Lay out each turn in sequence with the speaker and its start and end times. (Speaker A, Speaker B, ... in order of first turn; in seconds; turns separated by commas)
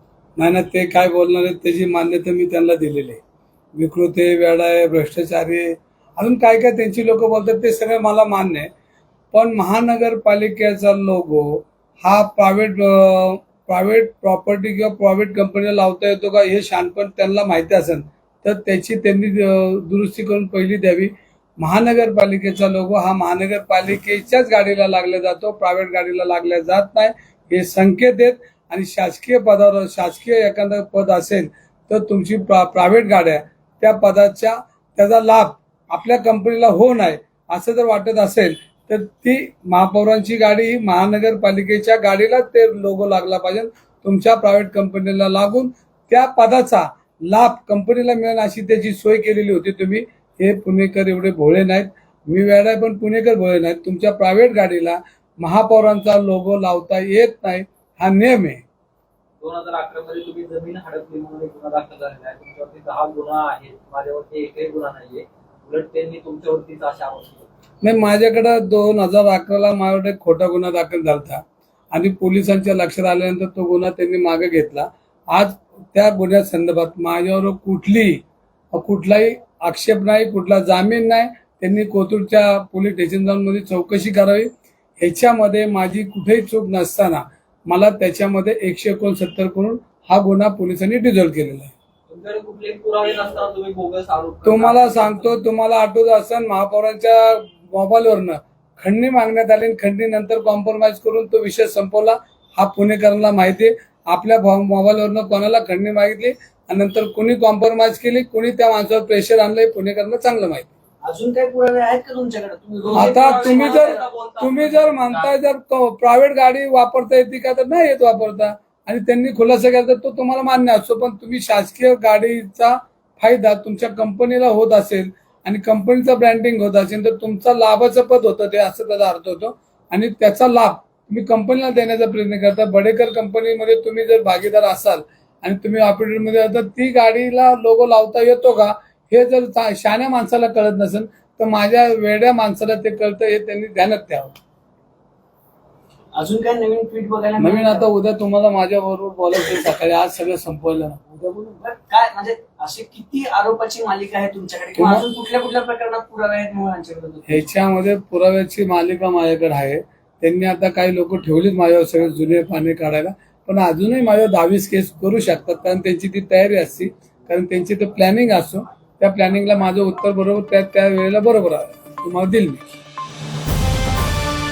Speaker A: 0.4-3.2, Speaker A: 3.8-8.7, Speaker A: 9.3-58.6, Speaker B: 59.4-67.5, Speaker A: 67.8-78.2, Speaker A: 78.7-91.7, Speaker B: 92.1-95.4, Speaker A: 94.4-110.7, Speaker C: 111.0-114.1, Speaker B: 112.9-115.3, Speaker A: 112.9-144.4, Speaker C: 146.1-147.9, Speaker A: 147.4-151.0, Speaker C: 151.1-157.5, Speaker A: 154.8-155.0, Speaker A: 157.3-172.6